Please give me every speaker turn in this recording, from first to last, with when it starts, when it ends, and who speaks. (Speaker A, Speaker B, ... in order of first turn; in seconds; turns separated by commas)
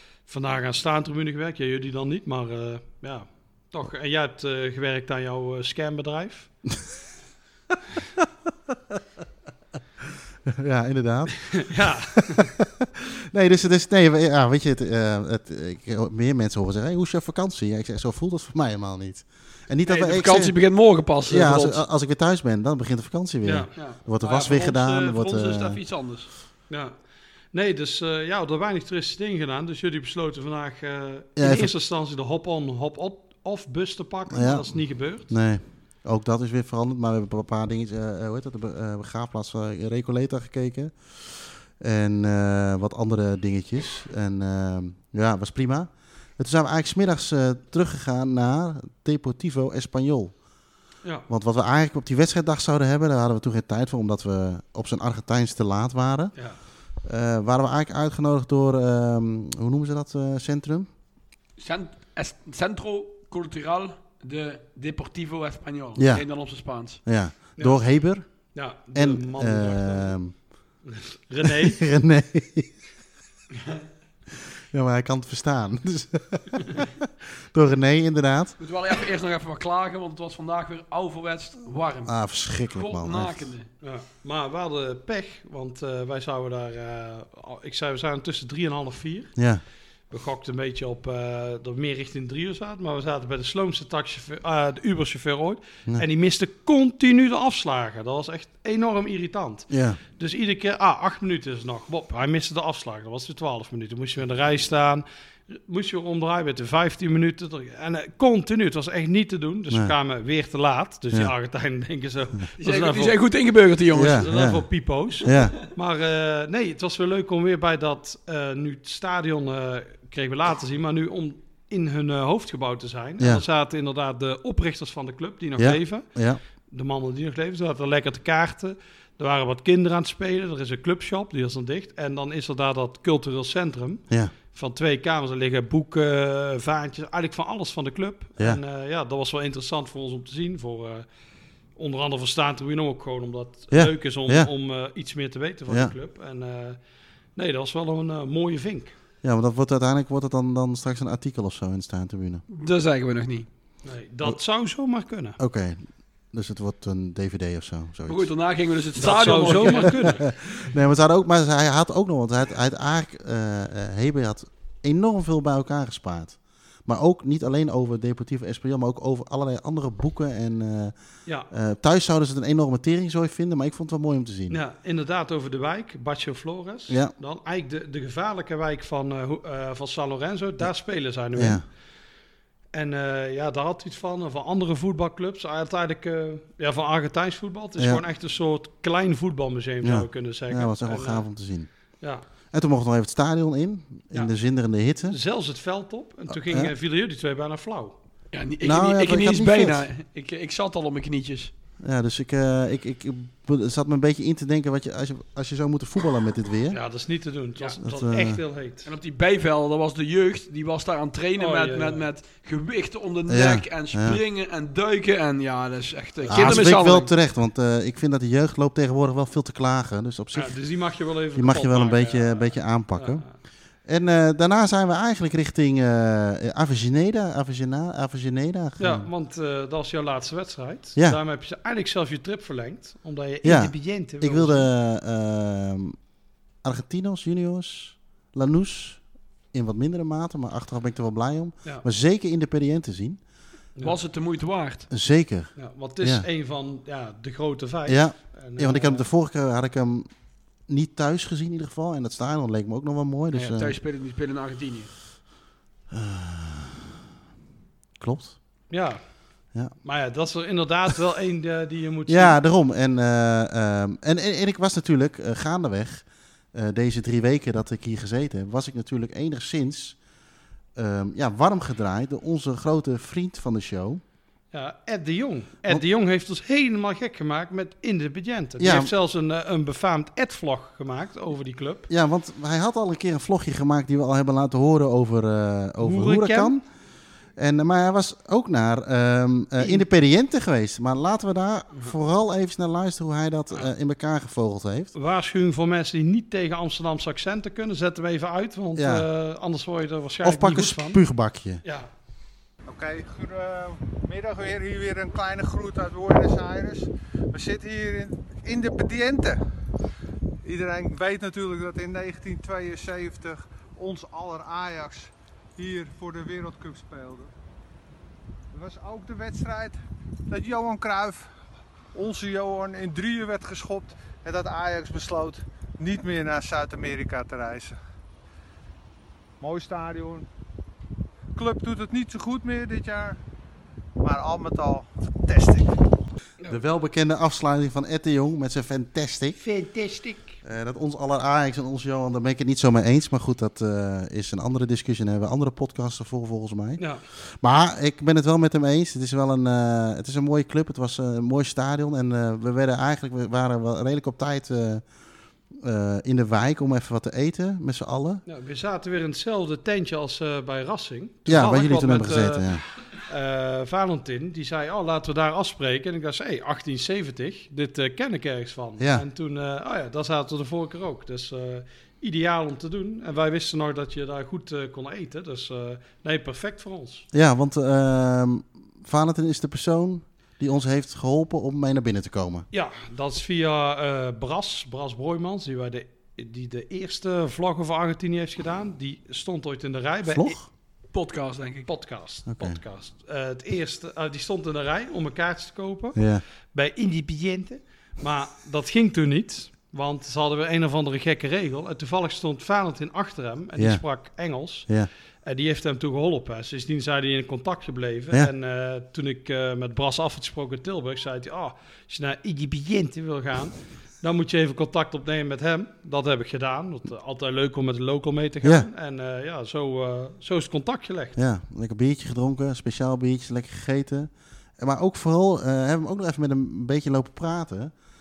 Speaker A: 0.3-6.5, Speaker B: 10.4-20.6, Speaker A: 11.5-12.5, Speaker C: 19.9-21.8, Speaker B: 21.3-25.8, Speaker A: 23.4-23.7, Speaker C: 23.8-26.3, Speaker A: 27.5-35.3, Speaker B: 31.4-31.7, Speaker B: 34.3-50.3, Speaker B: 51.3-56.3, Speaker B: 57.0-60.9, Speaker C: 61.6-67.0, Speaker B: 66.0-66.2, Speaker B: 67.1-68.3, Speaker A: 67.6-67.8, Speaker A: 68.5-70.2, Speaker B: 68.9-70.3, Speaker A: 70.9-71.8, Speaker B: 71.4-72.7, Speaker B: 74.7-78.6, Speaker C: 78.6-82.2, Speaker B: 82.1-83.5, Speaker C: 82.7-83.7, Speaker A: 83.8-89.3, Speaker B: 89.4-89.6, Speaker A: 90.1-113.2, Speaker B: 99.7-100.0, Speaker C: 112.6-114.2, Speaker B: 113.9-114.7, Speaker A: 114.1-126.1, Speaker B: 115.2-115.5, Speaker B: 125.6-126.4, Speaker A: 126.7-141.1, Speaker A: 141.8-146.8, Speaker B: 143.7-144.5, Speaker A: 147.4-148.9, Speaker B: 149.2-152.4, Speaker C: 152.5-153.5, Speaker A: 153.8-155.4, Speaker B: 155.4-158.3, Speaker C: 158.1-160.2, Speaker A: 159.0-160.2, Speaker B: 159.2-170.9, Speaker B: 171.5-174.6, Speaker A: 174.5-181.6, Speaker B: 181.3-181.6, Speaker A: 182.7-191.2, Speaker B: 187.8-188.0, Speaker B: 189.8-191.7, Speaker B: 192.5-195.2, Speaker A: 195.1-198.0, Speaker B: 196.3-196.7, Speaker C: 198.3-201.5, Speaker B: 198.6-199.9, Speaker B: 201.8-206.8, Speaker A: 206.7-208.9, Speaker B: 207.8-208.4, Speaker C: 208.8-217.1, Speaker A: 211.4-212.1, Speaker B: 213.3-214.2, Speaker A: 216.2-216.6, Speaker B: 216.3-220.6, Speaker A: 220.3-223.3, Speaker B: 221.3-223.2, Speaker B: 223.8-229.1, Speaker A: 228.8-234.7, Speaker B: 233.4-236.0, Speaker B: 236.6-239.0, Speaker B: 239.5-243.2, Speaker C: 243.8-244.9, Speaker B: 244.9-246.2, Speaker A: 245.6-249.1, Speaker B: 247.9-250.1, Speaker B: 250.7-253.8, Speaker C: 253.3-254.9, Speaker B: 255.9-256.9, Speaker B: 258.0-258.4, Speaker A: 258.7-259.0, Speaker A: 259.8-262.4, Speaker B: 262.1-270.0, Speaker B: 270.8-274.0, Speaker A: 274.5-281.9, Speaker B: 278.6-278.9, Speaker B: 281.9-286.6, Speaker A: 285.8-286.5, Speaker B: 287.4-294.9, Speaker A: 289.6-289.8, Speaker A: 294.9-301.0, Speaker B: 298.8-299.1, Speaker B: 300.2-301.6, Speaker D: 302.7-309.4, Speaker D: 310.4-317.3, Speaker D: 318.5-319.8, Speaker D: 320.3-321.3, Speaker D: 321.9-327.8, Speaker D: 329.4-330.3, Speaker D: 331.4-333.2, Speaker D: 334.0-335.8, Speaker B: 336.5-339.4, Speaker A: 339.4-340.4, Speaker B: 340.4-354.8, Speaker B: 355.6-358.2, Speaker A: 358.3-362.5, Speaker B: 361.3-362.6, Speaker A: 363.1-377.1, Speaker B: 368.8-369.0, Speaker B: 377.1-382.5, Speaker A: 382.5-390.4, Speaker B: 390.1-390.5, Speaker C: 390.9-391.7, Speaker A: 391.7-396.0, Speaker B: 392.3-392.6, Speaker B: 396.0-396.2, Speaker A: 396.5-404.7, Speaker B: 403.6-403.8, Speaker A: 405.2-421.2, Speaker B: 418.4-418.7, Speaker B: 421.2-427.7